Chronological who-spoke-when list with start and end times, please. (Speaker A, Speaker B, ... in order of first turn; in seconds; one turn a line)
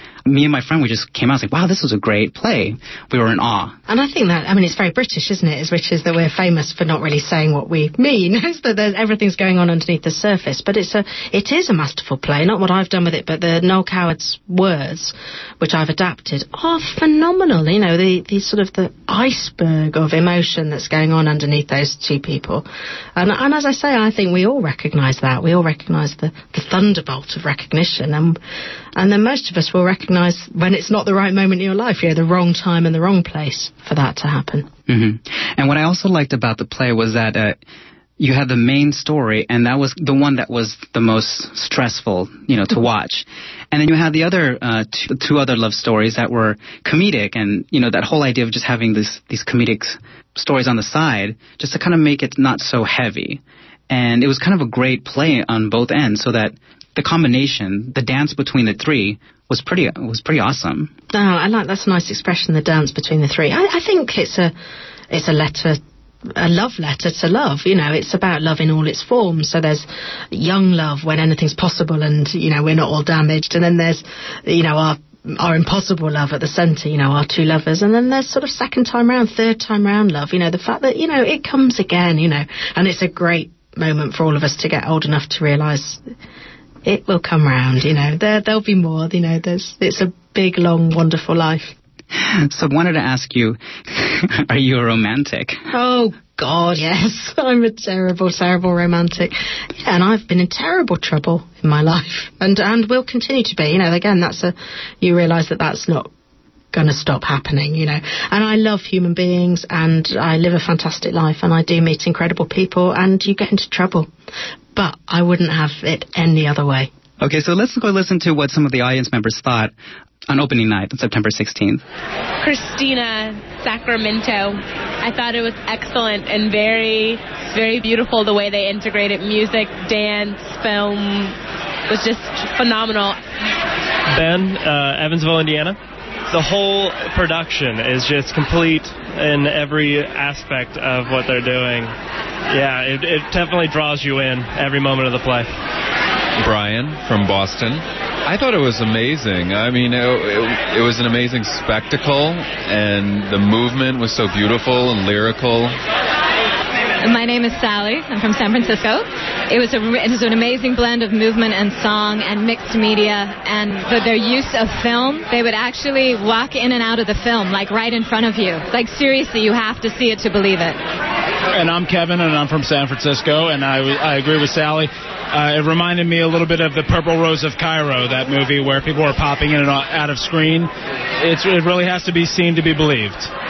Speaker A: 0.2-3.8
Speaker B: 3.9-28.4
Speaker B: 28.9-34.7
Speaker A: 34.9-37.6
Speaker A: 38.2-60.9
Speaker B: 61.1-64.5
Speaker B: 65.1-65.8
Speaker B: 66.3-86.0
Speaker B: 86.8-91.7
Speaker A: 92.2-95.6
Speaker B: 95.7-106.1
Speaker B: 106.7-114.1
Speaker B: 114.7-116.9
Speaker A: 117.2-119.7
Speaker A: 120.3-121.8
Speaker C: 122.4-131.3
Speaker C: 131.9-133.2
Speaker D: 134.1-135.8
Speaker D: 136.3-141.9
Speaker D: 142.5-145.6
Speaker E: 146.4-155.8
Speaker F: 157.0-170.8
Speaker G: 171.5-183.3